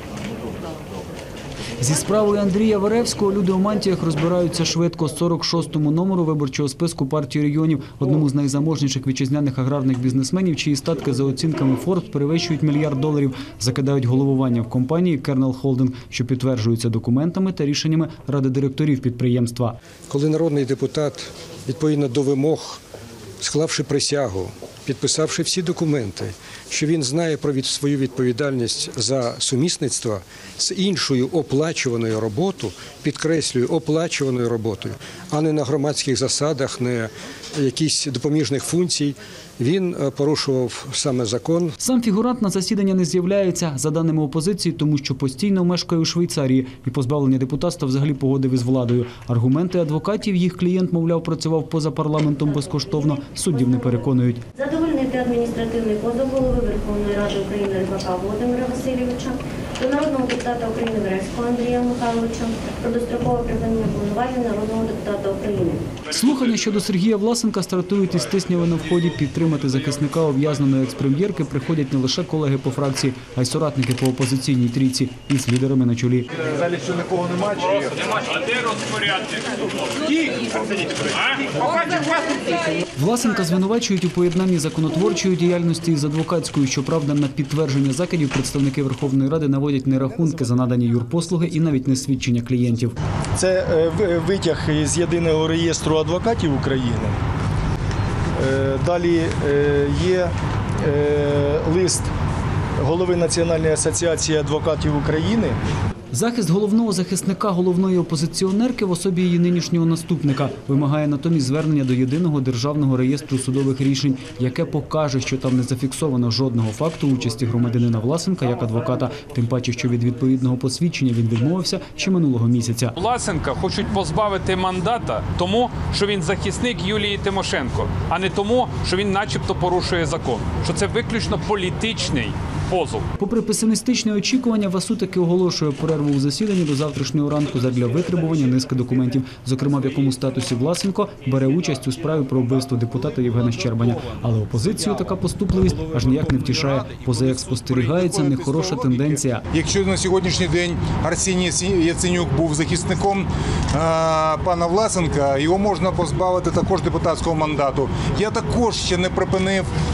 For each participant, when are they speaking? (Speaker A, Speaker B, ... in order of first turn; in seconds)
Speaker A: 1.8-19.8, 41.8-54.4, 66.1-76.3, 83.0-93.0, 106.1-123.0, 133.2-149.4
Speaker B: 20.1-22.8, 23.4-41.8
Speaker C: 52.3-65.9
Speaker D: 76.5-77.8, 147.4-159.7
Speaker E: 77.8-79.4, 80.2-80.5, 81.7-82.3, 123.0-133.1
Speaker F: 93.3-97.2, 98.3-102.1, 102.8-105.6